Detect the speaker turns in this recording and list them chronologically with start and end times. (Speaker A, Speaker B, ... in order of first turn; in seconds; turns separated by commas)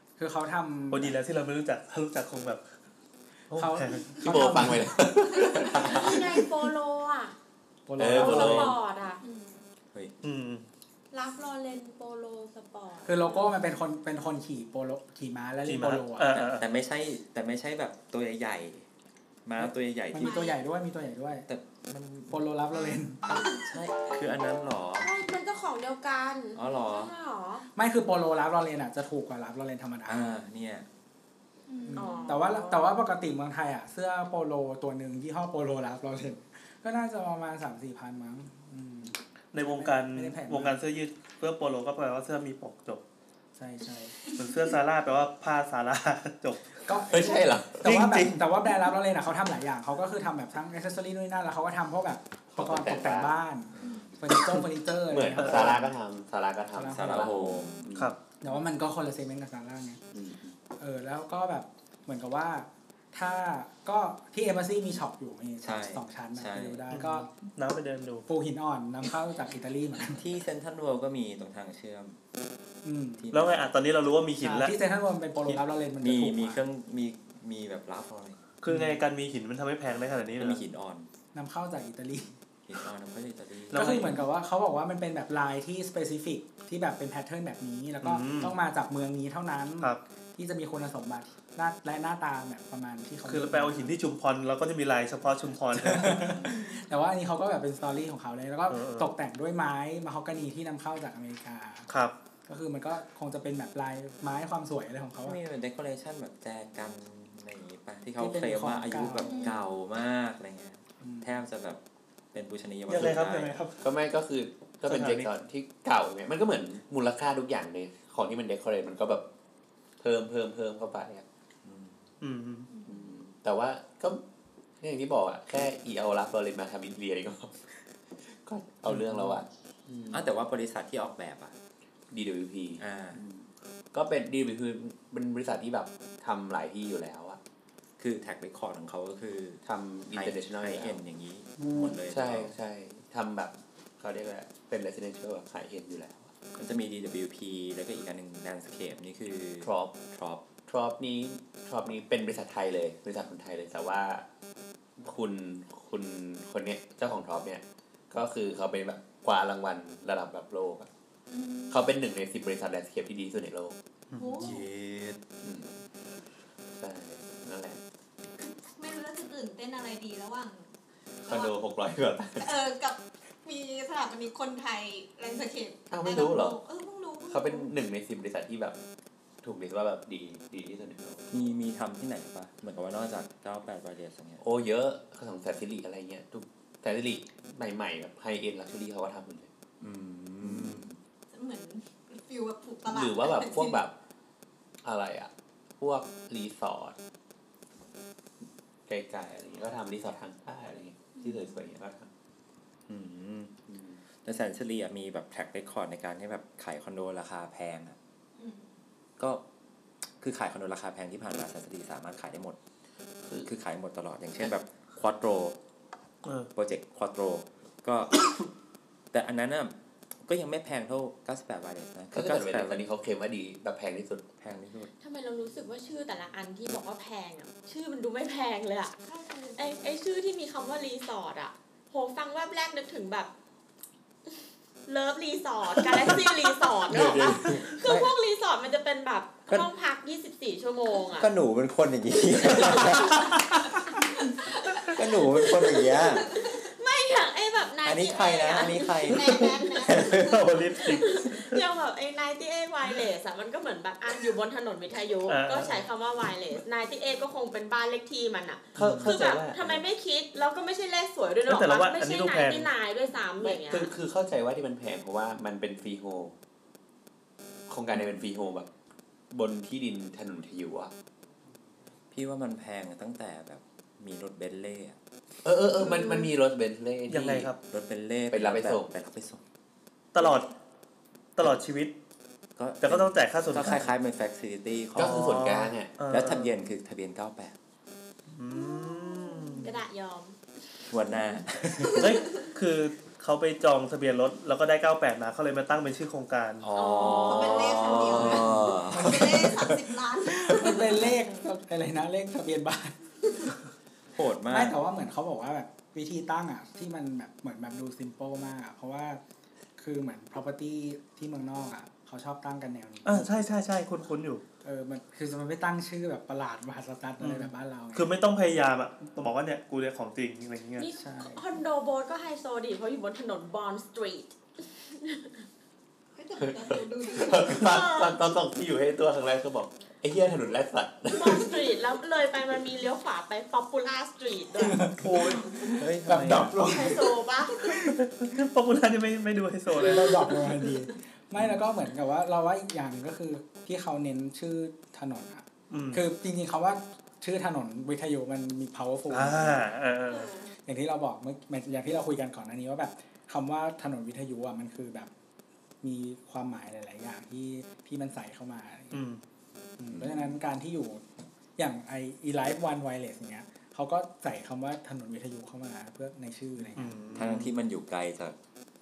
Speaker A: 0.2-1.1, Speaker B: 0.9-2.6, Speaker B: 3.5-4.1, Speaker A: 3.5-4.9, Speaker C: 4.2-6.4, Speaker D: 5.3-6.2, Speaker E: 5.7-7.3, Speaker A: 7.9-8.8, Speaker C: 8.0-8.8, Speaker E: 8.1-9.2, Speaker D: 9.2-9.6, Speaker B: 10.2-10.6, Speaker E: 11.1-13.4, Speaker A: 13.0-16.3, Speaker B: 15.7-16.7, Speaker F: 16.3-18.9, Speaker F: 19.4-20.4, Speaker A: 19.6-21.5, Speaker F: 21.5-22.4, Speaker A: 22.3-23.2, Speaker F: 23.2-25.1, Speaker E: 25.0-27.6, Speaker F: 26.5-27.1, Speaker A: 27.8-30.4, Speaker F: 30.1-30.9, Speaker D: 31.7-32.3, Speaker A: 31.9-40.8, Speaker E: 31.9-32.9, Speaker B: 39.5-43.0, Speaker A: 43.6-44.1, Speaker D: 44.3-44.6, Speaker B: 44.4-46.7, Speaker A: 46.9-55.9, Speaker C: 47.1-47.9, Speaker B: 47.8-48.4, Speaker C: 52.5-53.3, Speaker F: 53.7-54.2, Speaker C: 55.1-58.1, Speaker B: 55.4-55.7, Speaker A: 56.8-57.3, Speaker F: 56.9-57.9, Speaker A: 58.4-60.0, Speaker C: 60.1-60.6, Speaker A: 60.8-67.3, Speaker F: 65.6-66.8, Speaker B: 66.9-68.3, Speaker A: 68.3-70.2, Speaker F: 70.1-72.2, Speaker A: 72.8-73.2, Speaker F: 73.2-73.7, Speaker B: 73.3-74.8, Speaker A: 74.4-76.6, Speaker F: 76.0-78.5, Speaker B: 78.6-80.6, Speaker A: 78.7-79.0, Speaker F: 80.4-81.1, Speaker A: 81.3-82.3, Speaker F: 82.7-83.8, Speaker B: 83.7-84.3, Speaker A: 83.7-93.9, Speaker B: 88.0-88.6, Speaker B: 93.2-96.4, Speaker A: 95.8-101.9, Speaker D: 96.5-96.8, Speaker B: 98.7-99.1, Speaker B: 101.9-102.1, Speaker A: 102.5-105.4, Speaker F: 105.2-111.8, Speaker A: 108.2-109.5, Speaker D: 109.2-109.6, Speaker A: 111.0-111.3, Speaker F: 112.3-113.6, Speaker B: 112.9-113.8, Speaker C: 113.8-119.2, Speaker B: 114.9-115.3, Speaker C: 120.0-121.2, Speaker F: 121.6-122.0, Speaker B: 122.2-122.7, Speaker D: 122.7-123.0, Speaker C: 122.8-124.2, Speaker C: 124.8-127.8, Speaker C: 128.3-130.2, Speaker F: 130.1-131.6, Speaker C: 132.1-137.4, Speaker F: 132.8-133.2, Speaker F: 138.0-142.6, Speaker C: 139.6-141.0, Speaker C: 141.7-146.3, Speaker F: 146.5-150.5, Speaker C: 149.6-150.0, Speaker C: 150.7-154.2, Speaker C: 155.0-160.9, Speaker D: 161.3-161.9, Speaker C: 161.7-163.8, Speaker B: 164.1-164.6, Speaker D: 164.1-164.6, Speaker F: 164.4-165.2, Speaker C: 165.4-165.8, Speaker C: 166.7-167.8, Speaker D: 168.4-170.7, Speaker D: 171.2-171.5, Speaker C: 171.2-172.5, Speaker D: 172.4-177.7, Speaker C: 175.9-176.6, Speaker C: 177.3-178.8, Speaker C: 179.4-181.3, Speaker F: 181.3-184.4, Speaker C: 184.4-189.5, Speaker F: 189.8-190.9, Speaker C: 190.4-190.8, Speaker D: 191.3-193.8, Speaker C: 192.9-193.9, Speaker C: 194.8-197.0, Speaker C: 198.9-202.1, Speaker D: 201.2-201.6, Speaker F: 202.9-203.6, Speaker C: 203.7-204.0, Speaker F: 204.2-208.0, Speaker D: 208.4-208.7, Speaker F: 209.2-209.4, Speaker F: 210.2-212.6, Speaker F: 213.4-215.6, Speaker B: 216.2-216.5, Speaker F: 216.5-218.3, Speaker F: 219.1-222.8, Speaker C: 222.1-224.3, Speaker F: 224.4-224.9, Speaker E: 225.0-228.9, Speaker D: 229.0-229.9, Speaker E: 229.6-233.3, Speaker E: 234.9-241.3, Speaker B: 236.9-237.6, Speaker F: 236.9-238.1, Speaker F: 241.2-243.4, Speaker B: 242.9-243.4, Speaker F: 244.8-246.4, Speaker D: 245.9-246.5, Speaker E: 246.4-250.0, Speaker F: 247.8-250.4, Speaker D: 249.1-250.5, Speaker B: 249.9-251.5, Speaker E: 250.9-263.9, Speaker B: 255.3-255.8, Speaker C: 258.7-259.8, Speaker B: 261.5-262.7, Speaker C: 263.4-266.4, Speaker C: 267.7-268.7, Speaker F: 267.9-268.2, Speaker C: 269.3-270.9, Speaker F: 272.1-275.0, Speaker C: 275.4-277.5, Speaker E: 275.8-276.2, Speaker B: 277.1-277.6, Speaker F: 277.7-279.4, Speaker C: 278.3-278.9, Speaker B: 280.1-280.5, Speaker B: 281.4-281.9, Speaker F: 282.6-285.5, Speaker B: 282.8-283.9, Speaker C: 284.9-286.0, Speaker B: 285.2-286.5, Speaker F: 286.1-287.6, Speaker B: 288.4-289.7, Speaker E: 288.5-290.4, Speaker F: 290.9-292.2, Speaker D: 291.8-292.1, Speaker B: 291.9-296.7, Speaker F: 296.6-299.9, Speaker E: 296.7-298.2, Speaker D: 297.1-301.2, Speaker C: 298.1-298.4, Speaker A: 298.9-299.4, Speaker A: 300.3-302.9, Speaker F: 304.1-304.8, Speaker A: 304.5-309.2, Speaker A: 309.8-313.3, Speaker B: 313.0-314.4, Speaker A: 314.6-318.1, Speaker B: 317.2-320.9, Speaker E: 320.8-324.3, Speaker A: 320.9-321.6, Speaker E: 325.0-325.4, Speaker D: 326.1-327.7, Speaker C: 326.4-331.7, Speaker E: 327.6-328.1, Speaker E: 331.1-335.0, Speaker A: 334.6-338.0, Speaker B: 335.0-335.5, Speaker F: 335.7-336.6, Speaker E: 336.6-337.8, Speaker B: 337.9-340.6, Speaker A: 339.8-349.7, Speaker B: 345.7-346.0, Speaker B: 349.1-350.3, Speaker D: 350.1-350.4, Speaker A: 350.6-355.1, Speaker A: 355.8-359.0, Speaker B: 358.9-359.2, Speaker A: 359.8-361.0, Speaker F: 359.9-360.3, Speaker A: 361.6-367.0, Speaker B: 366.8-367.5, Speaker F: 367.1-368.4